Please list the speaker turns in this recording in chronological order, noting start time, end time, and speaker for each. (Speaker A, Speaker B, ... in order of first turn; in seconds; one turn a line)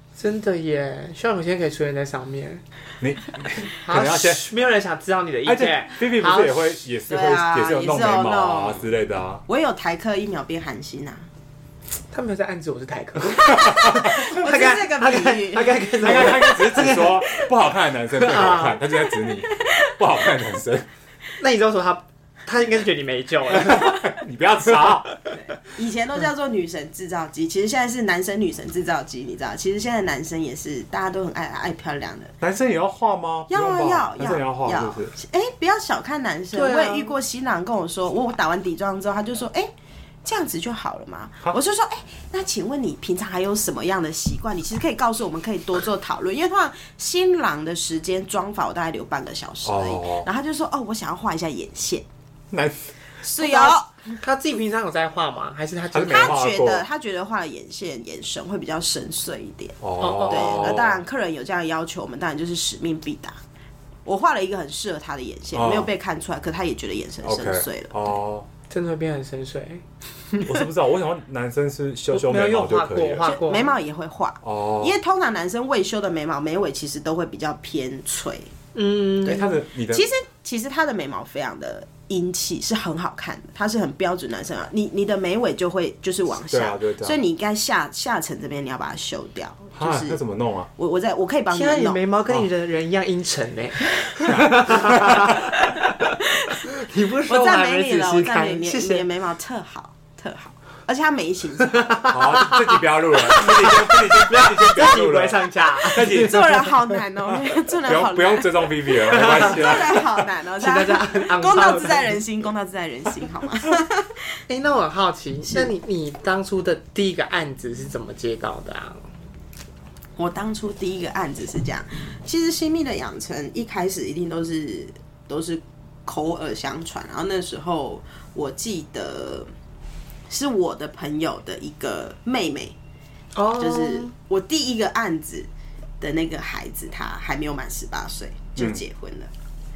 Speaker A: 0.1-2.6
Speaker B: 3.0-4.4
Speaker A: 3.8-6.7
Speaker B: 5.4-9.4
Speaker C: 7.1-8.8
Speaker C: 9.5-11.3
Speaker A: 12.1-17.5
Speaker C: 13.6-15.9
Speaker B: 16.0-20.9
Speaker A: 18.1-18.8
Speaker A: 21.4-24.1
Speaker B: 23.6-25.1
Speaker C: 25.5-32.3
Speaker B: 32.4-35.1
Speaker C: 33.5-39.7
Speaker A: 36.5-37.1
Speaker C: 40.2-52.0
Speaker B: 49.6-50.3
Speaker B: 52.5-52.9
Speaker C: 53.2-53.9
Speaker A: 53.4-56.4
Speaker B: 55.9-56.8
Speaker C: 56.0-63.4
Speaker B: 59.8-61.0
Speaker A: 60.0-60.8
Speaker C: 64.0-68.1
Speaker B: 65.5-65.9
Speaker B: 67.2-68.5
Speaker A: 68.7-69.8
Speaker B: 70.4-73.3
Speaker A: 72.1-73.8
Speaker C: 73.2-78.5
Speaker B: 74.4-75.0
Speaker A: 78.7-79.5
Speaker B: 79.2-80.1
Speaker C: 79.2-90.2
Speaker B: 86.5-87.2
Speaker B: 89.8-90.7
Speaker C: 90.8-92.0
Speaker A: 91.5-96.1
Speaker B: 94.3-95.3
Speaker C: 96.0-96.6
Speaker A: 96.7-99.1
Speaker C: 97.2-102.1
Speaker A: 101.9-106.6
Speaker B: 102.0-106.7
Speaker C: 106.1-114.2
Speaker B: 107.3-110.2
Speaker A: 109.1-109.6
Speaker A: 110.6-112.2
Speaker A: 114.5-119.1
Speaker C: 120.2-129.5
Speaker C: 130.3-132.8
Speaker A: 133.3-134.1
Speaker C: 133.5-135.5
Speaker C: 136.0-139.3
Speaker B: 138.6-138.8